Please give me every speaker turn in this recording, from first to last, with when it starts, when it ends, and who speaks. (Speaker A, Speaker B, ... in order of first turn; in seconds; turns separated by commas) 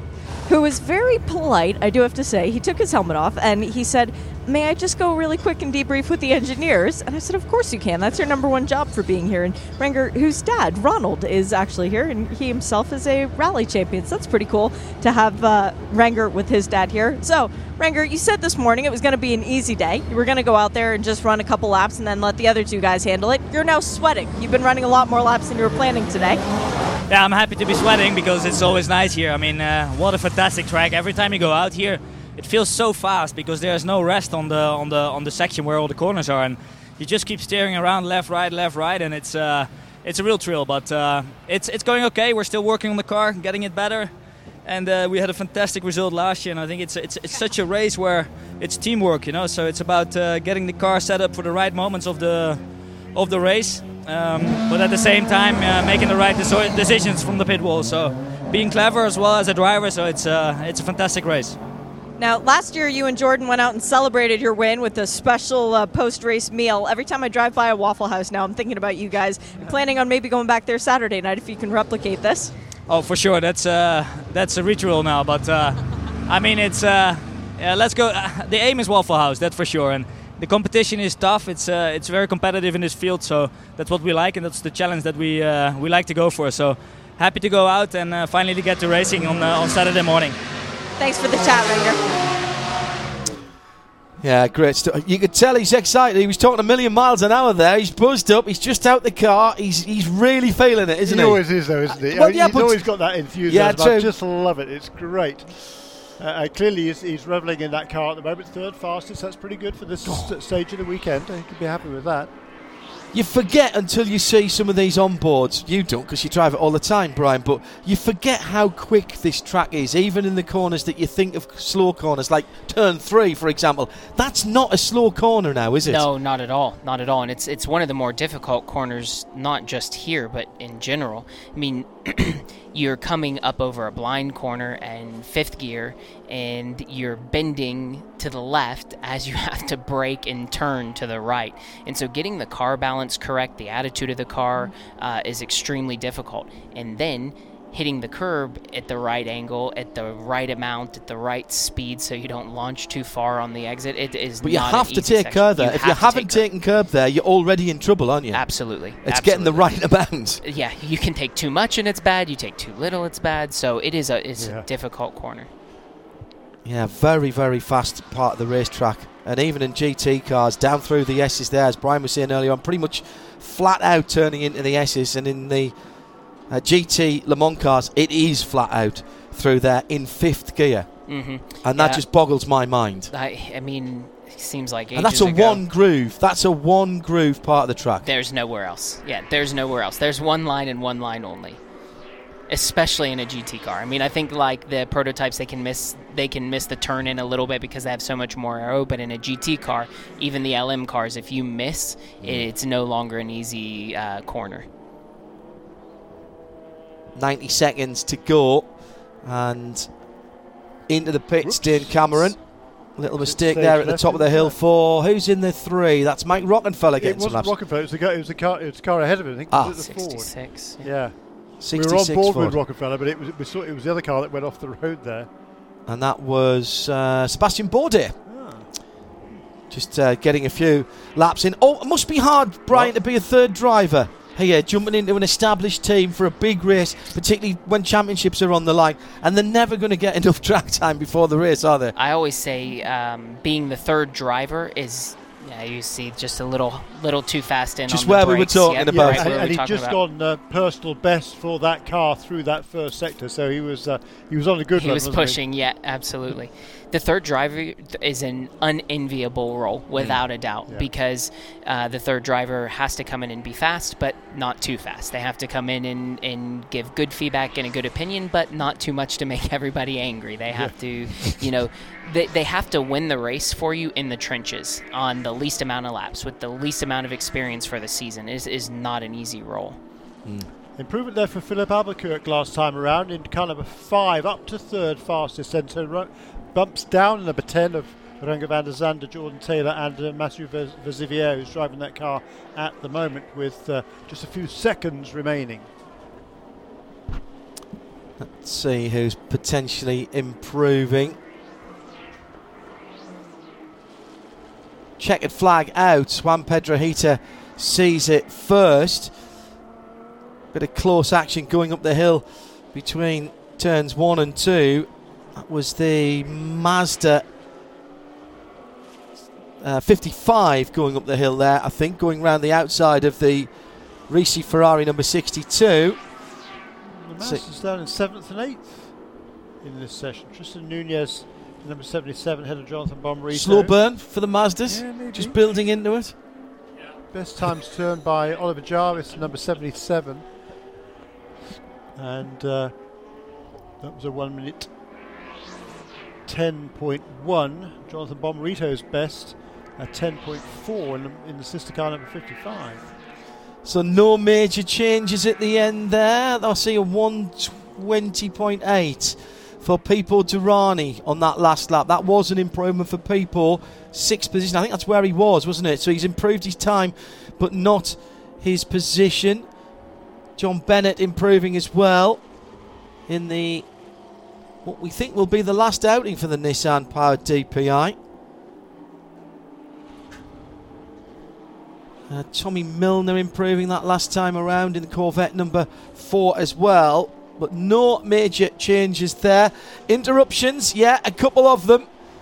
Speaker A: 0.5-26.4, Speaker B: 27.1-44.1, Speaker B: 44.6-52.6, Speaker B: 53.1-61.6, Speaker A: 62.2-72.5, Speaker B: 72.9-90.3, Speaker A: 91.0-92.0, Speaker C: 94.2-102.8, Speaker D: 101.0-112.3, Speaker C: 103.5-104.1, Speaker C: 110.0-110.3, Speaker C: 113.1-126.0, Speaker E: 125.8-156.4, Speaker C: 154.4-158.5, Speaker E: 158.3-159.7, Speaker C: 159.0-160.4, Speaker E: 160.4-165.5, Speaker D: 164.4-164.7, Speaker C: 166.6-175.7, Speaker C: 176.5-180.9, Speaker E: 181.1-182.0, Speaker C: 181.6-183.1, Speaker E: 183.1-185.6, Speaker C: 184.9-188.0, Speaker E: 188.0-191.6, Speaker E: 192.5-204.7, Speaker C: 202.2-202.5, Speaker C: 207.1-208.7, Speaker C: 209.2-209.9, Speaker C: 210.9-212.4, Speaker D: 211.4-212.4, Speaker C: 212.9-217.5, Speaker D: 213.0-214.6, Speaker D: 217.0-221.2, Speaker C: 219.5-219.8, Speaker E: 219.7-220.9, Speaker C: 221.6-222.6, Speaker D: 221.7-225.3, Speaker C: 225.9-228.2, Speaker D: 228.2-228.7, Speaker C: 229.7-241.9, Speaker E: 241.9-250.0, Speaker C: 247.9-249.3, Speaker D: 248.9-255.4, Speaker E: 254.7-279.8, Speaker C: 280.2-280.5, Speaker D: 280.8-295.7, Speaker C: 298.2-301.2, Speaker C: 305.0-309.1, Speaker C: 310.5-317.2, Speaker C: 319.6-323.5, Speaker C: 324.1-326.0, Speaker D: 326.9-328.9, Speaker D: 329.6-333.7, Speaker C: 333.3-336.1, Speaker D: 334.7-335.4, Speaker D: 337.1-340.2, Speaker D: 341.9-342.7, Speaker D: 343.8-344.7, Speaker D: 346.2-352.9, Speaker C: 353.6-369.4, Speaker C: 370.4-372.2, Speaker C: 373.1-373.6, Speaker C: 374.6-377.9, Speaker C: 382.1-391.9